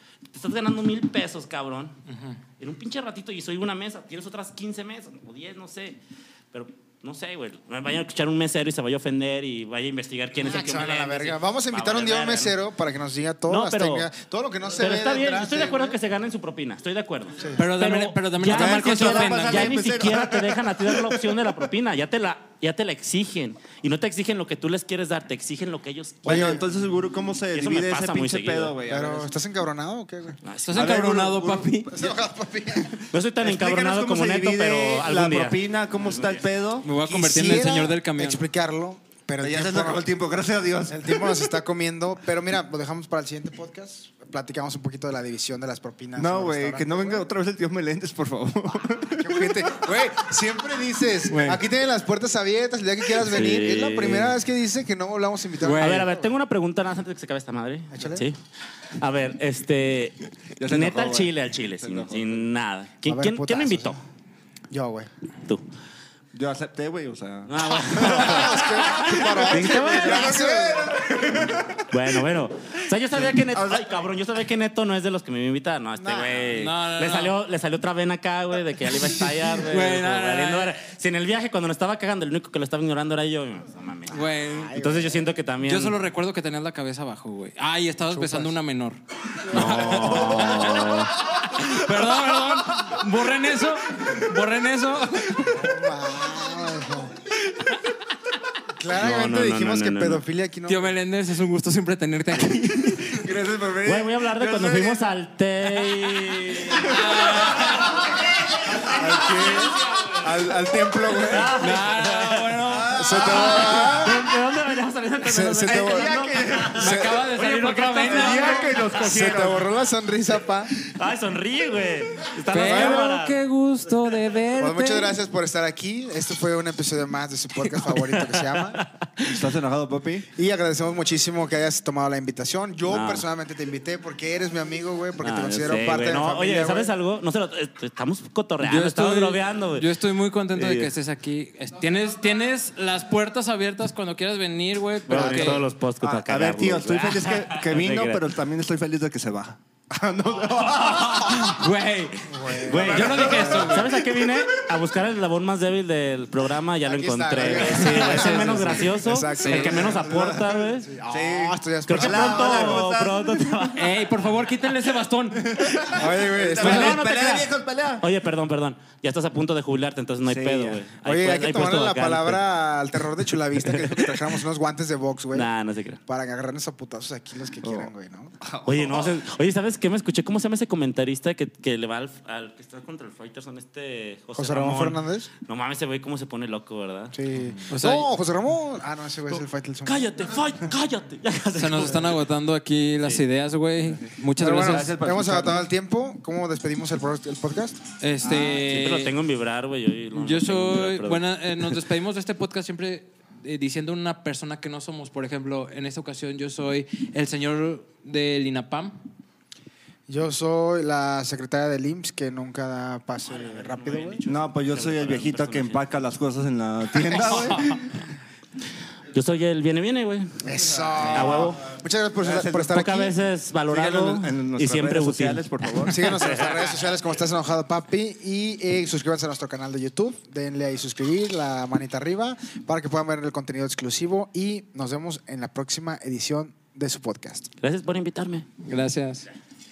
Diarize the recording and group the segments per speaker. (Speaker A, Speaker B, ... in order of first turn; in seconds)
Speaker A: 0.3-2.0, 2.6-6.0, 6.5-12.6, 13.5-14.1, 14.8-26.6, 27.6-28.8, 30.4-31.1, 33.1-36.5, 53.3-54.4, 55.8-58.4, 59.0-64.0, 67.5-70.4, 71.9-86.0, 89.5-91.2, 98.9-100.2, 103.8-108.0, 108.7-110.3, 111.2-119.4, 120.8-123.4, 127.8-129.4, 132.9-133.2, 135.2-139.9, 140.5-140.9, 145.1-148.2, 152.5-160.9, 161.9-163.9, 166.6-167.5, 168.0-172.4, 173.6-174.2, 175.3-176.0, 178.7-187.2, 189.3-192.2, 198.6-201.7, 213.3-215.8, 219.1-221.6, 222.6-226.7, 237.6-238.5
Speaker B: 2.1-2.4, 17.6-19.8, 30.6-31.9, 36.8-38.4, 51.3-51.6, 55.6-56.1, 76.5-77.4, 79.0-80.8, 84.1-84.8, 85.6-95.7, 100.7-103.2, 106.8-108.0, 111.6-113.1, 116.8-118.8, 122.5-125.1, 138.6-145.7, 150.9-153.9, 157.6-159.9, 163.7-165.4, 187.7-188.1, 191.6-195.6, 198.0-199.1, 200.2-209.0, 238.6-239.3
Speaker C: 10.4-16.0, 17.4-17.6, 26.3-26.6, 28.9-30.4, 31.9-33.0, 37.0-40.1, 40.9-47.3, 49.1-56.3, 57.9-58.3, 63.1-64.0, 64.7-65.1, 68.0-71.4, 76.0-76.5, 84.2-85.3, 88.1-88.5, 89.4-90.3, 95.5-97.2, 98.8-100.9, 108.8-111.6, 112.9-114.2, 115.2-116.2, 116.8-117.2, 118.1-120.7, 122.5-123.1, 124.6-128.8, 130.4-136.9, 145.1-145.7, 152.2-153.9, 156.8-162.9, 165.9-167.1, 171.0-175.5, 176.1-178.3, 184.4-185.3, 187.1-190.4, 194.4-198.6, 210.1-214.2, 220.4-223.2, 225.9-237.5
Speaker D: 18.4-21.5, 26.3-29.3, 30.7-32.1, 33.4-36.9, 39.4-41.5, 46.2-49.8, 60.6-62.5, 66.3-72.3, 73.1-74.1, 103.0-105.1, 105.8-107.7, 112.7-114.2, 115.6-119.7, 129.2-130.3, 146.0-151.7, 152.7-154.0, 159.6-163.8, 165.3-168.1, 170.3-170.8, 177.6-179.2, 193.9-195.7, 214.3-218.0, 220.5-222.8, 223.7-226.5